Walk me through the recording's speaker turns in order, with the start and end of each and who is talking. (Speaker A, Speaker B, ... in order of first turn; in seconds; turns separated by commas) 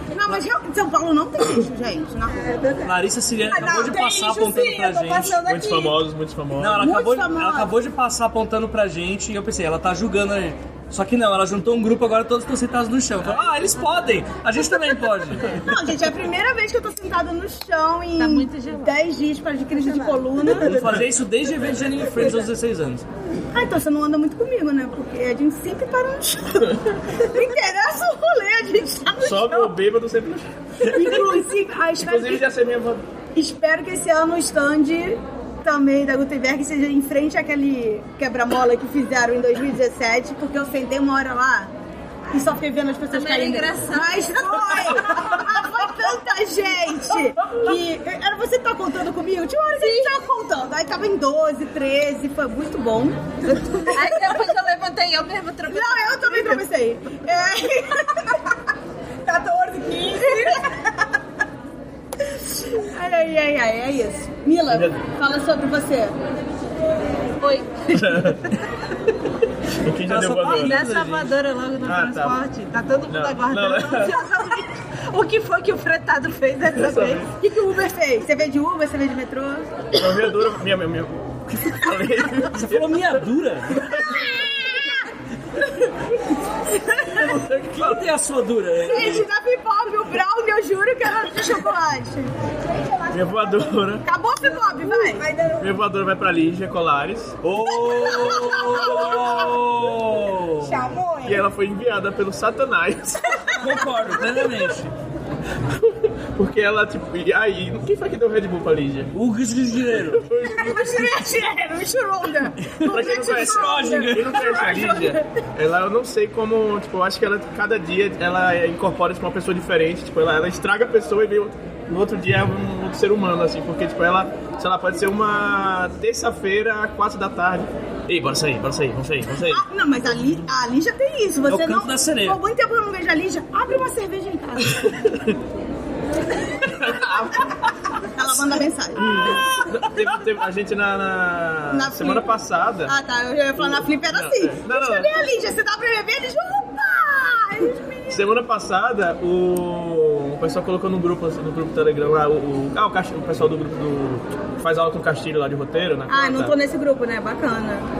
Speaker A: 0.1-2.6, Speaker B: 2.3-6.0, Speaker C: 2.9-5.4, Speaker D: 5.5-6.8, Speaker C: 6.6-15.6, Speaker A: 6.7-7.7, Speaker A: 15.5-21.1, Speaker E: 18.2-18.9, Speaker E: 19.8-20.1, Speaker C: 20.4-23.1, Speaker A: 22.2-22.4, Speaker A: 23.5-29.7, Speaker D: 29.2-31.5, Speaker A: 30.8-32.5, Speaker D: 32.0-33.0, Speaker A: 33.4-41.7, Speaker A: 42.3-54.4, Speaker E: 43.1-44.9, Speaker E: 49.8-50.1, Speaker E: 53.9-56.6, Speaker A: 55.7-58.4, Speaker B: 59.2-60.6, Speaker A: 60.3-60.6, Speaker A: 62.8-66.2, Speaker D: 64.7-65.0, Speaker E: 67.4-68.3, Speaker D: 67.9-68.5, Speaker D: 69.8-70.8, Speaker C: 70.0-71.3, Speaker E: 70.6-77.2, Speaker D: 71.8-72.4, Speaker D: 73.1-74.2, Speaker D: 76.7-77.3, Speaker A: 77.4-80.3, Speaker D: 80.0-83.2, Speaker C: 82.5-83.8, Speaker D: 83.8-84.4, Speaker A: 83.9-85.1, Speaker D: 87.1-88.1, Speaker C: 87.7-89.3, Speaker A: 88.8-92.3, Speaker B: 92.7-93.7, Speaker D: 93.1-94.0, Speaker A: 94.0-95.3, Speaker B: 94.4-95.7, Speaker D: 95.6-97.4, Speaker C: 97.4-100.8, Speaker B: 97.8-99.4, Speaker A: 97.8-98.8, Speaker B: 100.6-101.5, Speaker D: 101.2-103.5, Speaker C: 103.6-104.9, Speaker D: 105.8-109.1, Speaker C: 109.1-110.3, Speaker D: 109.9-111.3, Speaker A: 110.5-115.3, Speaker C: 112.8-114.4, Speaker D: 112.8-129.6, Speaker A: 129.5-135.3, Speaker C: 131.5-132.4, Speaker D: 136.7-137.6, Speaker A: 138.1-139.6, Speaker D: 139.0-142.9, Speaker C: 139.1-139.4, Speaker A: 141.7-142.3, Speaker A: 142.9-148.3, Speaker D: 143.6-145.1, Speaker D: 148.1-156.5, Speaker A: 156.1-157.9